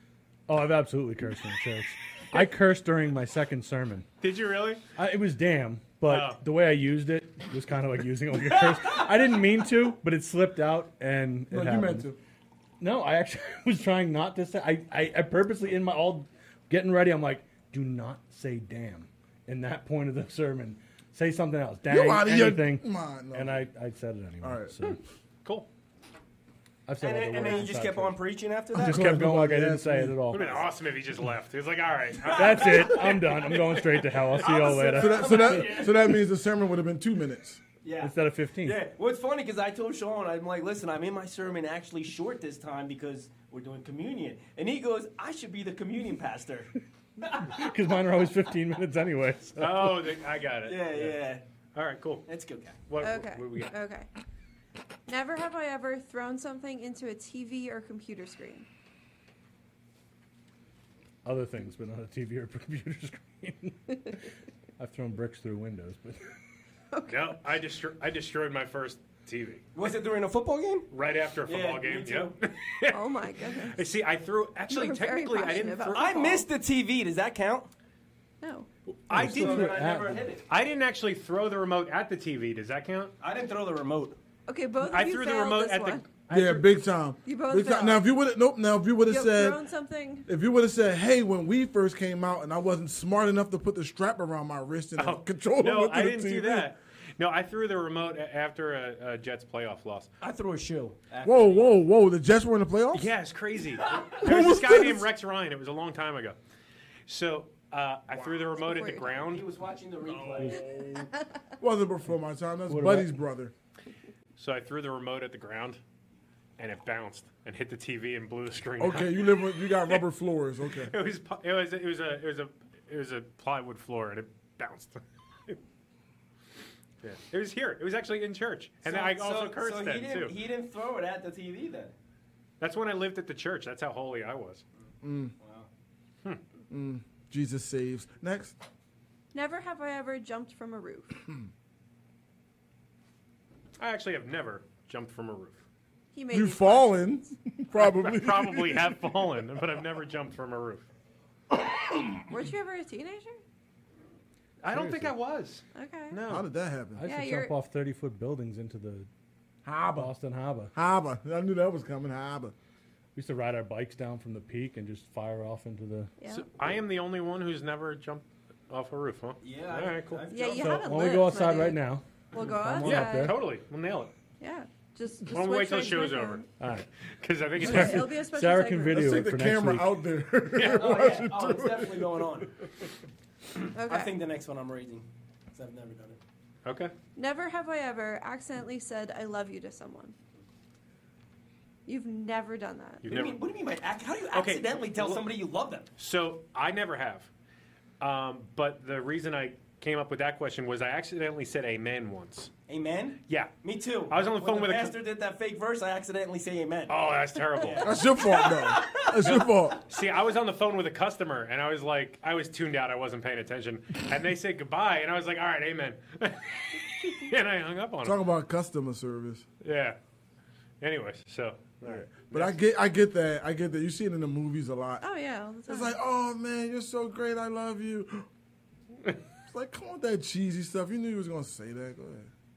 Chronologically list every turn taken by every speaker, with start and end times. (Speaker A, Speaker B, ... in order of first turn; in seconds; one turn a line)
Speaker A: 0.5-4.1
Speaker B: 4.2-4.8
Speaker A: 5.0-12.1
Speaker B: 6.0-6.4
Speaker C: 11.5-12.2
Speaker A: 12.8-25.0
Speaker C: 21.9-23.6
Speaker C: 24.4-24.7
Speaker A: 26.9-28.2
Speaker D: 27.0-29.2
Speaker A: 28.7-30.6
Speaker C: 28.8-30.2
Speaker B: 30.3-33.9
Speaker D: 32.2-36.2
Speaker A: 32.3-35.8
Speaker C: 34.7-37.6
Speaker D: 37.8-46.7
Speaker A: 38.0-38.8
Speaker D: 47.2-47.6
Speaker A: 47.5-49.9
Speaker B: 49.6-51.2
Speaker D: 50.6-51.4
Speaker B: 51.8-52.3
Speaker D: 52.3-52.8
Speaker B: 52.9-53.7
Speaker E: 53.0-54.1
Speaker E: 55.1-58.7
Speaker A: 61.2-66.3
Speaker E: 66.9-67.3
Speaker B: 67.1-69.6
Speaker D: 69.8-70.9
Speaker B: 70.9-76.2
Speaker D: 71.5-72.3
Speaker E: 72.9-73.8
Speaker E: 74.7-76.5
Speaker D: 75.9-77.7
Speaker E: 78.4-78.7
Speaker B: 79.1-79.8
Speaker A: 79.1-80.3
Speaker D: 79.2-80.4
Speaker B: 80.5-83.1
Speaker D: 83.2-84.2
Speaker E: 84.5-86.0
Speaker B: 84.8-86.7
Speaker C: 86.3-89.6
Speaker E: 87.2-88.0
Speaker E: 89.1-90.3
Speaker C: 90.3-96.7
Speaker B: 95.0-100.1
Speaker D: 100.2-101.7
Speaker C: 101.2-103.1
Speaker B: 102.9-106.4
Speaker D: 103.8-104.2
Speaker C: 104.2-105.1
Speaker B: 107.1-109.5
Speaker E: 108.5-109.1
Speaker D: 109.2-110.7
Speaker C: 110.1-111.1
Speaker C: 111.6-113.5
Speaker A: 112.7-113.2
Speaker B: 114.4-115.8
Speaker B: 116.6-120.0
Speaker C: 118.8-120.9
Speaker B: 120.9-125.6
Speaker B: 127.0-130.3
Speaker D: 128.8-131.9
Speaker B: 132.6-134.6
Speaker C: 135.0-135.3
Speaker D: 135.4-135.7
Speaker C: 136.7-138.6
Speaker E: 139.3-141.2
Speaker B: 143.8-145.6
Speaker E: 146.1-147.3
Speaker C: 146.3-149.2
Speaker B: 147.7-150.9
Speaker C: 151.5-152.2
Speaker E: 152.3-153.4
Speaker B: 154.6-156.5
Speaker A: 154.7-155.1
Speaker E: 155.7-156.2
Speaker C: 156.3-157.1
Speaker A: 157.0-159.1
Speaker E: 157.0-157.6
Speaker C: 159.7-160.1
Speaker A: 159.9-160.7
Speaker C: 160.8-162.5
Speaker A: 163.2-166.1
Speaker E: 166.2-166.5
Speaker B: 166.3-170.2
Speaker D: 169.4-170.9
Speaker E: 170.3-173.4
Speaker A: 170.6-173.4
Speaker B: 172.8-174.1
Speaker E: 174.4-176.4
Speaker B: 175.3-178.1
Speaker A: 176.6-176.8
Speaker A: 177.6-179.9
Speaker E: 177.6-179.2
Speaker C: 178.9-182.5
Speaker B: 180.6-181.0
Speaker D: 180.6-182.5
Speaker E: 183.7-184.2
Speaker D: 183.8-186.2
Speaker B: 186.7-186.9
Speaker E: 187.2-190.2
Speaker E: 191.9-193.1
Speaker B: 193.0-193.4
Speaker D: 193.1-195.9
Speaker B: 194.3-195.3
Speaker B: 196.0-197.3
Speaker B: 198.0-202.5
Speaker D: 202.7-207.0
Speaker B: 203.3-203.5
Speaker B: 204.1-205.0
Speaker B: 206.9-208.1
Speaker D: 207.5-209.1
Speaker C: 207.8-209.8
Speaker B: 209.0-218.2
Speaker C: 218.0-219.4
Speaker B: 219.6-220.0
Speaker B: 220.8-222.6
Speaker C: 221.8-225.0
Speaker E: 225.0-226.0
Speaker C: 225.7-228.3
Speaker C: 229.5-232.3